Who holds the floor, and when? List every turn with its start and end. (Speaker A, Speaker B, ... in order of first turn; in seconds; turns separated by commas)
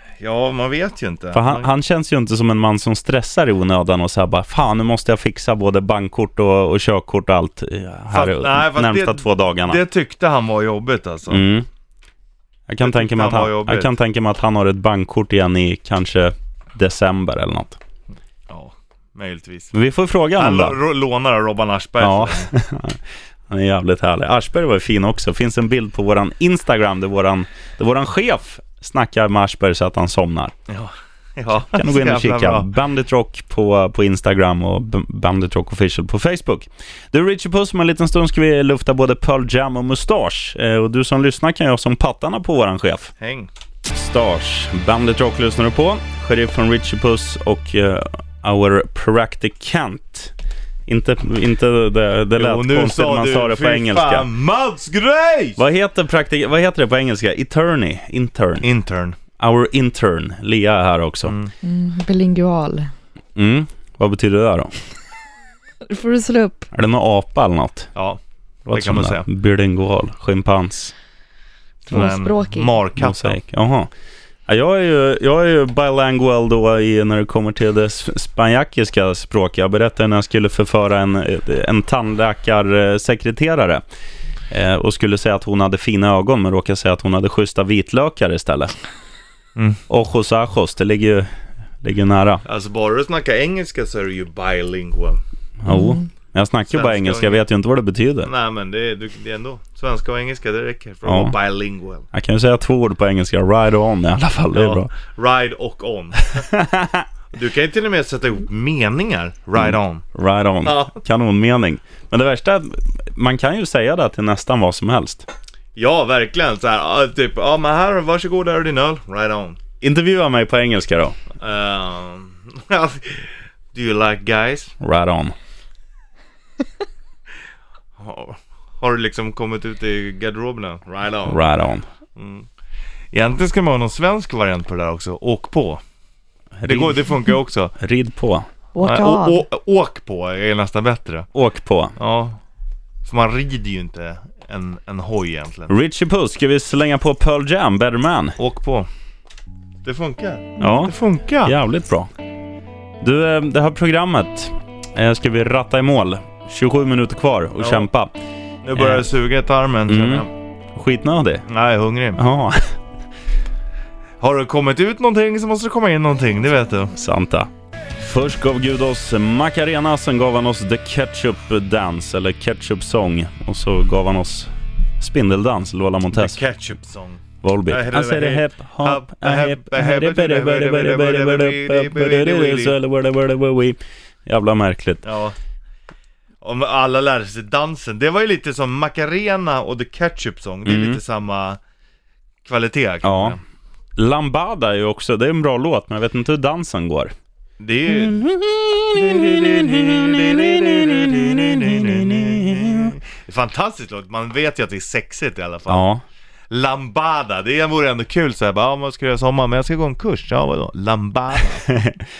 Speaker A: 0.2-1.7, Speaker B: 1.3-9.8, Speaker A: 8.1-11.4, Speaker B: 11.3-11.7, Speaker B: 12.7-17.8, Speaker A: 12.8-13.9, Speaker A: 18.5-19.7, Speaker B: 19.7-20.8, Speaker A: 20.4-22.5, Speaker B: 22.0-30.5, Speaker A: 30.7-32.7, Speaker B: 31.7-43.1, Speaker A: 43.2-43.5, Speaker B: 43.9-50.3, Speaker B: 50.9-54.3, Speaker A: 52.4-55.6, Speaker B: 55.6-58.7, Speaker A: 58.6-59.2, Speaker B: 59.4-61.4, Speaker A: 61.2-61.5, Speaker C: 61.6-62.9, Speaker B: 63.4-64.7, Speaker C: 65.9-66.7, Speaker B: 66.7-67.9, Speaker B: 68.7-70.9, Speaker A: 68.7-69.3, Speaker C: 71.9-72.8, Speaker A: 71.9-73.4, Speaker B: 73.0-73.9, Speaker B: 74.5-83.8, Speaker B: 84.5-88.7, Speaker A: 89.6-89.8, Speaker B: 89.9-91.3, Speaker B: 91.8-92.4, Speaker A: 92.5-95.2, Speaker B: 95.6-98.3, Speaker C: 95.7-96.0, Speaker A: 96.7-97.5, Speaker A: 98.2-102.1, Speaker B: 101.1-101.4, Speaker B: 102.1-104.9, Speaker A: 104.5-106.5, Speaker B: 106.4-107.1, Speaker A: 107.3-110.0, Speaker B: 109.6-115.3, Speaker A: 110.6-111.0, Speaker A: 115.8-119.6, Speaker B: 119.8-121.2, Speaker A: 121.4-124.7, Speaker B: 124.8-125.3, Speaker A: 128.0-131.4, Speaker B: 131.3-131.9, Speaker A: 132.2-132.5, Speaker A: 133.1-135.8, Speaker B: 136.6-137.2, Speaker A: 136.6-137.7, Speaker B: 137.8-138.5, Speaker C: 138.8-139.4, Speaker A: 138.8-141.3, Speaker B: 141.3-141.9, Speaker A: 142.0-142.4, Speaker A: 143.0-145.7, Speaker B: 145.7-148.4, Speaker A: 148.4-148.9, Speaker A: 149.8-151.6, Speaker B: 150.6-152.1, Speaker B: 153.0-158.1, Speaker A: 157.6-157.9, Speaker A: 158.6-160.3, Speaker B: 158.8-159.1, Speaker B: 159.9-161.5, Speaker A: 161.5-162.2, Speaker B: 162.2-162.8, Speaker A: 164.2-166.9, Speaker B: 166.9-167.5, Speaker B: 168.0-176.4, Speaker A: 176.1-182.8, Speaker B: 177.4-185.0, Speaker A: 185.0-185.3, Speaker A: 186.4-191.6, Speaker B: 190.7-191.0, Speaker A: 192.4-193.4, Speaker B: 193.0-193.4, Speaker B: 194.0-197.1, Speaker A: 197.6-198.2, Speaker B: 197.9-202.9, Speaker A: 198.9-205.9, Speaker B: 205.7-206.0, Speaker A: 206.5-211.6, Speaker B: 211.7-212.1